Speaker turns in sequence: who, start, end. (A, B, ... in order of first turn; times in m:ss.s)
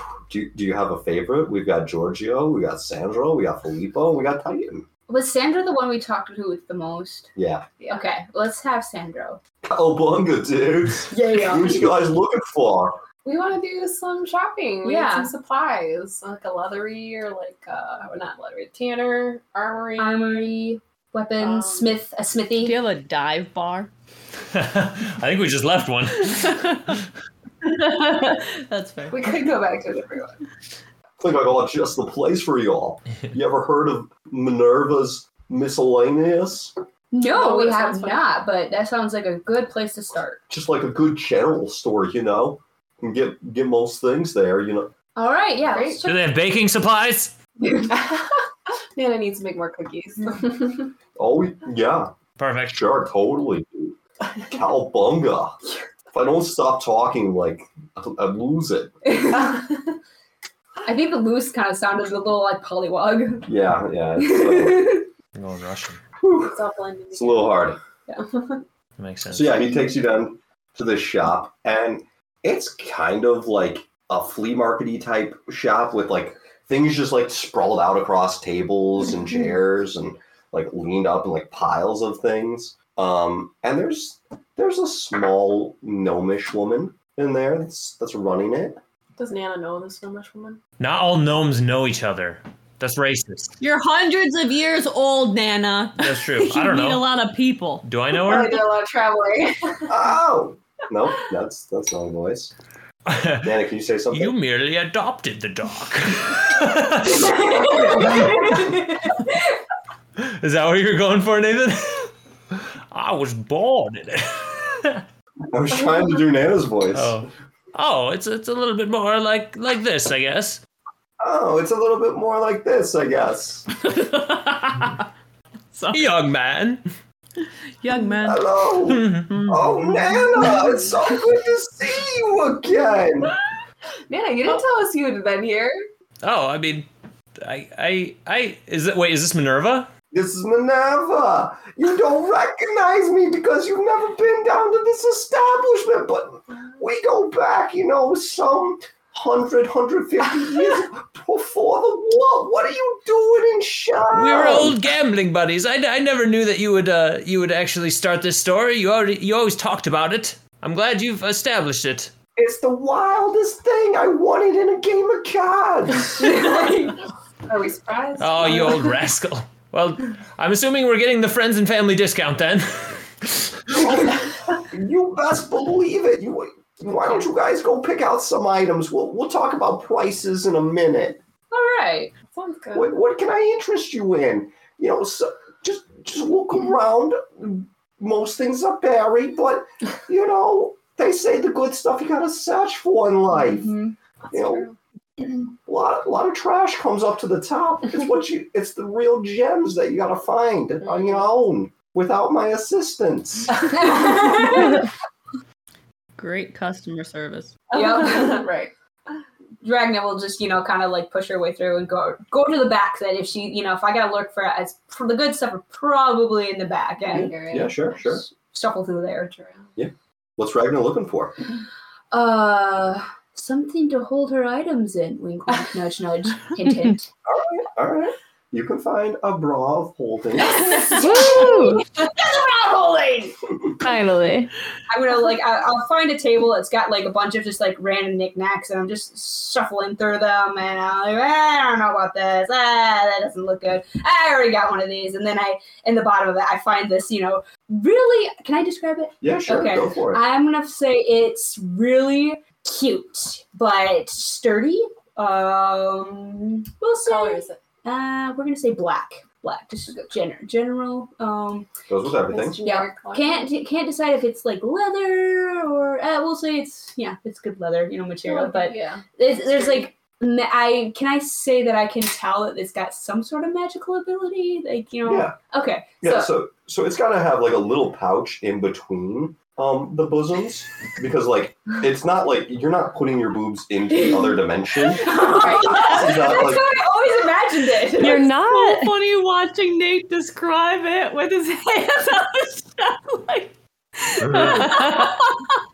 0:00.3-0:04.8 A
0:05.1-0:07.3 B
0:07.4-0:07.6 A
0:07.8-0:08.1 C
0:07.9-0:09.4 B
0:09.6-0:13.0 A
0:11.1-0:11.9 B
0:13.2-0:20.3 C
0:14.8-0:15.3 B
0:20.0-0:22.8 B
0:21.4-0:21.9 C
0:22.6-0:23.9 D
0:24.5-0:27.0 E
0:28.2-0:29.2 D
0:29.1-0:30.4 C
0:31.2-0:36.7 A
0:37.1-0:40.4 B
0:37.3-0:38.3 C
0:40.5-0:44.9 A
0:45.2-0:46.2 B
0:45.6-0:46.1 C
0:46.0-0:47.4 E
0:47.7-0:48.4 C
0:49.0-0:50.9 C
0:51.2-0:52.1 A
0:52.4-0:52.8 E
0:52.7-0:55.6 A
0:56.1-0:58.9 A
0:59.0-0:59.6 B
0:59.3-0:59.9 C
1:00.8-1:03.5 B
1:03.4-1:05.0 A
1:04.2-1:05.1 B
1:05.3-1:06.0 E
1:06.2-1:06.6 A
1:06.4-1:08.6 C
1:07.1-1:07.8 A
1:09.0-1:09.6 E
1:09.3-1:28.8 A
1:29.2-1:30.6 C
1:30.8-1:33.5 E
1:33.6-1:37.8 D
1:36.0-1:37.1 E
1:37.8-1:38.6 E
1:38.1-1:40.0 C
1:39.9-1:42.5 A
1:43.1-1:43.5 E
1:43.4-1:44.4 A
1:44.1-1:48.7 E
1:47.3-1:49.3 B
1:50.2-1:55.0 E
1:55.5-1:57.2 A
1:56.9-2:00.6 E
2:01.2-2:03.7 A
2:03.8-2:05.1 D
2:05.7-2:06.2 D
2:05.9-2:06.8 E
2:07.4-2:08.7 D
2:08.2-2:13.4 A
2:08.8-2:09.6 E
2:09.3-2:10.6 D
2:14.1-2:15.8 C
2:16.2-2:16.9 E
2:17.4-2:19.9 E
2:20.1-2:34.8 A
2:34.1-2:42.1 E
2:42.4-2:46.4 A
2:46.2-2:47.0 B
2:47.5-2:48.9 C
2:48.2-2:53.4 E
2:54.7-3:01.2 A
3:01.5-3:02.1 B
3:02.3-3:03.0 C
3:02.7-3:13.7 A
3:13.3-3:14.0 B
3:14.3-3:14.7 C
3:14.3-3:14.6 A
3:15.6-3:23.7 A
3:20.8-3:21.3 C
3:23.7-3:24.8 B
3:26.2-3:27.6 D
3:27.7-3:28.7 C
3:27.7-3:28.5 B
3:29.6-3:37.4 B
3:37.0-3:37.8 C
3:37.5-3:38.2 A
3:37.9-3:39.4 B
3:39.3-3:39.7 C
3:39.8-3:41.4 A
3:42.1-3:47.1 B
3:47.2-3:50.8 A
3:50.6-3:51.3 C
3:50.6-3:53.4 B
3:51.0-3:51.8 F
3:53.8-3:54.5 F
3:54.9-4:21.7 B
4:09.2-4:10.2 A
4:17.0-4:17.6 C
4:21.9-4:22.6 A
4:22.3-4:23.5 C
4:22.6-4:36.3 B
4:28.2-4:29.8 C
4:35.0-4:35.4 A
4:36.0-4:46.8 A
4:44.9-4:48.2 B
4:45.1-4:46.3 C
4:48.0-4:49.0 F
4:48.0-4:55.6 D
4:54.4-4:55.2 F